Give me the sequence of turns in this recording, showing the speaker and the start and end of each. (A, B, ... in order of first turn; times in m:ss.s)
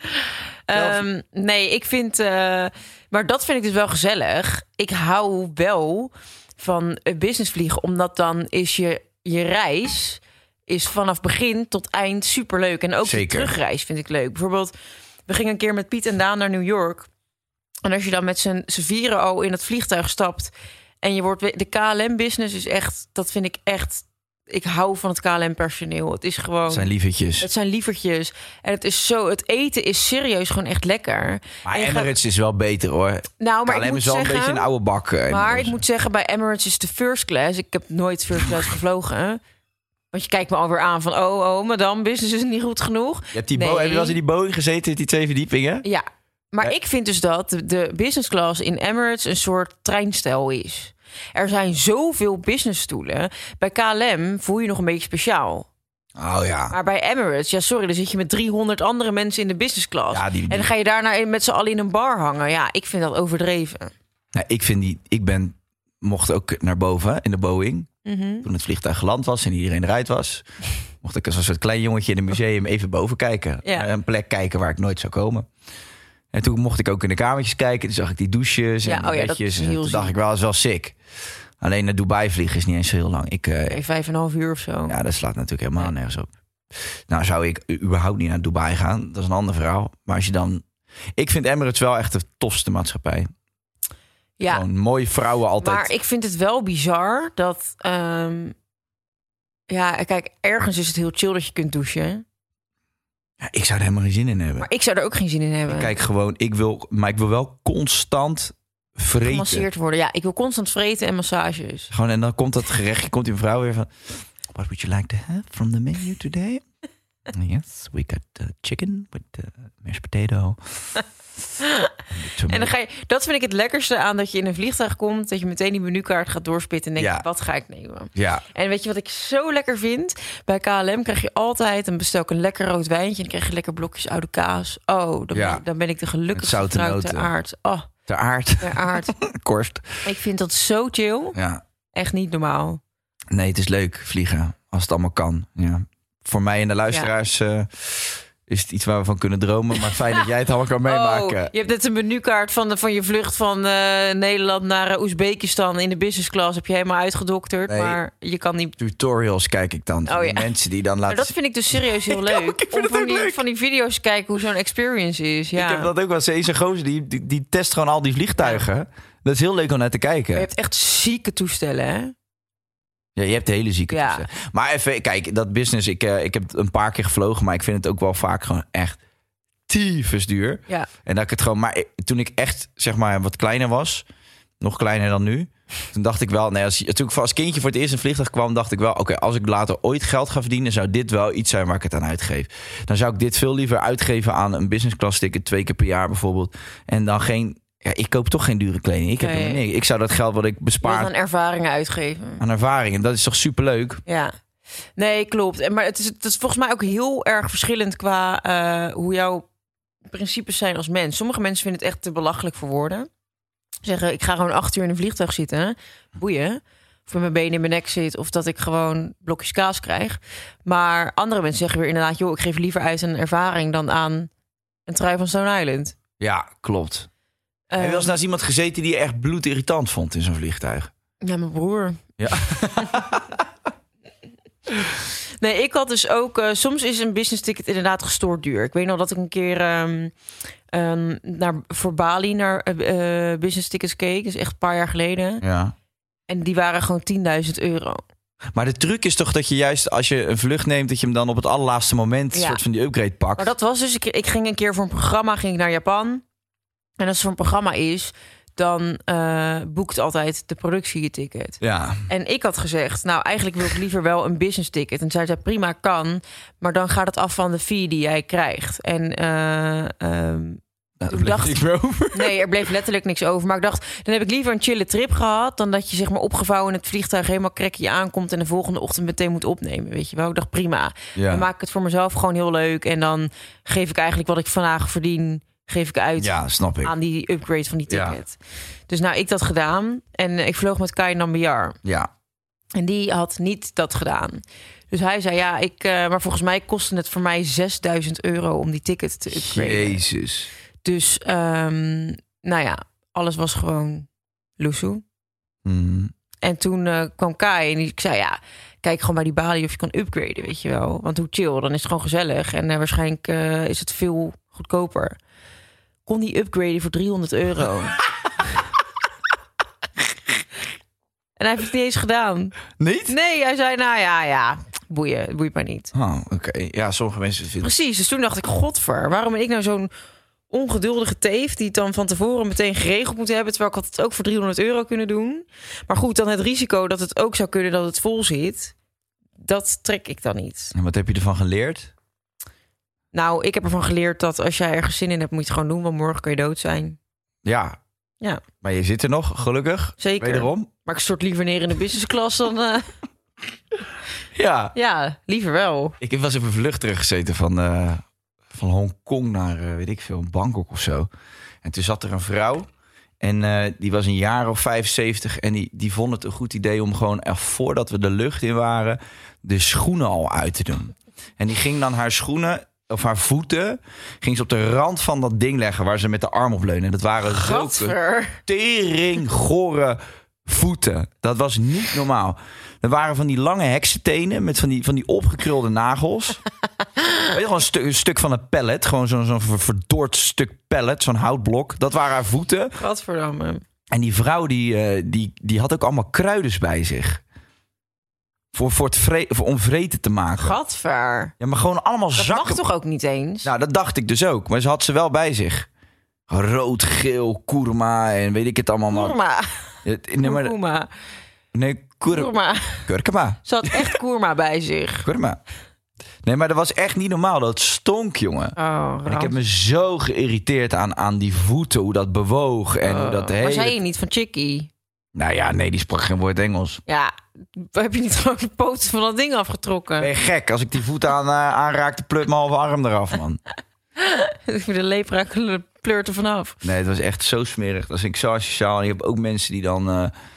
0:00.7-0:14.7 A
0:00.7-0:01.0 B
0:13.0-0:13.5 B
0:15.3-0:17.1 A
0:17.8-0:32.1 A
0:26.7-0:27.5 B
0:31.6-0:35.8 B
0:33.4-0:34.7 A
0:35.3-0:39.4 A
0:40.1-0:44.2 A
0:43.3-0:45.8 B
0:45.8-0:55.7 A
0:56.2-0:56.8 B
0:56.7-1:03.9 A
1:00.1-1:00.7 B
1:04.3-1:07.9 B
1:08.0-1:08.5 A
1:08.4-1:10.4 B
1:11.0-1:15.5 B
1:16.3-1:21.0 B
1:18.8-1:20.1 A
1:21.6-1:23.8 B
1:23.6-1:25.0 A
1:24.9-1:26.3 B
1:27.1-1:30.6 B
1:31.2-1:33.3 B
1:34.4-1:34.6 A
1:34.4-1:35.9 B
1:35.6-1:38.5 A
1:39.7-1:42.2 A
1:43.4-1:44.7 B
1:44.6-1:45.9 A
1:45.7-1:49.7 B
1:49.2-1:51.9 A
1:51.9-1:53.9 B
1:54.5-1:56.6 B
1:57.3-2:00.6 B
2:01.6-2:01.9 A
2:02.1-2:02.7 B
2:02.5-2:17.9 A
2:07.0-2:07.2 B
2:08.1-2:08.4 B
2:15.3-2:15.6 B
2:16.3-2:17.3 B
2:18.1-2:19.9 B
2:18.6-2:19.1 A
2:20.0-2:21.4 A
2:21.3-2:21.6 B
2:21.9-2:22.8 A
2:23.3-2:31.5 B
2:29.8-2:30.2 A
2:30.8-2:38.8 A
2:37.7-2:38.0 B
2:38.8-2:43.4 B
2:40.1-2:40.5 A
2:41.1-2:45.9 A
2:45.6-2:50.5 B
2:50.3-2:52.1 A
2:53.2-2:59.0 B
2:53.9-2:54.2 A
2:59.7-3:04.0 B
3:04.6-3:21.1 B
3:19.2-3:19.6 A
3:20.8-3:22.4 A
3:22.4-3:24.0 B
3:24.0-3:24.3 A
3:25.0-3:29.4 A
3:30.1-3:33.1 A
3:33.8-3:44.3 A
3:44.9-3:45.9 A
3:46.2-3:47.1 B
3:47.7-3:48.1 A
3:47.8-3:50.9 B
3:51.2-3:52.0 A
3:52.2-3:53.4 B
3:54.8-4:00.1 A
4:00.7-4:05.4 A
4:05.4-4:05.7 B
4:06.3-4:08.0 A
4:08.5-4:13.5 B
4:12.3-4:12.6 A
4:13.4-4:16.2 A
4:17.0-4:31.6 A
4:21.6-4:22.1 B
4:31.0-4:32.4 B
4:32.1-4:48.4 A
4:41.1-4:41.5 B
4:46.2-4:46.9 B
4:47.9-4:48.2 B
4:48.9-4:51.8 A
4:51.8-4:52.1 B
4:52.7-5:00.0 A
4:59.3-5:00.5 B
5:00.8-5:04.1 A
5:04.6-5:05.0 A
5:05.6-5:06.1 B
5:06.4-5:15.2 A
5:16.0-5:18.0 A
5:21.4-5:22.6 A
5:22.8-5:23.1 B
5:23.1-5:25.9 A
5:25.9-5:27.7 B
5:27.6-5:29.9 A
5:30.5-5:38.7 A
5:39.4-5:40.7 A
5:40.7-5:41.9 B
5:43.1-5:47.0 A
5:47.4-5:47.8 B
5:48.6-5:50.7 B
5:50.0-5:52.8 A
5:54.3-5:54.7 B
5:54.7-5:56.0 A
5:56.0-6:01.1 B
6:01.6-6:02.7 B
6:03.2-6:17.9 B
6:17.2-6:18.4 A
6:18.5-6:26.4 B
6:27.3-6:32.7 B
6:32.8-6:33.6 A
6:33.9-6:37.2 B
6:38.5-6:40.6 B
6:40.4-6:41.3 A
6:41.4-6:42.6 B
6:42.2-6:43.5 A
6:43.4-6:45.7 B
6:46.3-6:49.2 B
6:48.9-6:49.6 A
6:49.8-6:50.6 B
6:50.2-6:50.9 A
6:51.5-6:52.3 B
6:52.1-6:52.9 A
6:52.8-6:53.9 B
6:53.4-6:55.0 A
6:55.0-6:55.4 B
6:56.2-7:03.8 B
6:58.6-6:59.3 A
7:02.8-7:04.7 A
7:05.1-7:06.8 B
7:06.9-7:10.1 A
7:10.0-7:13.4 B
7:14.0-7:16.6 A
7:16.6-7:20.1 B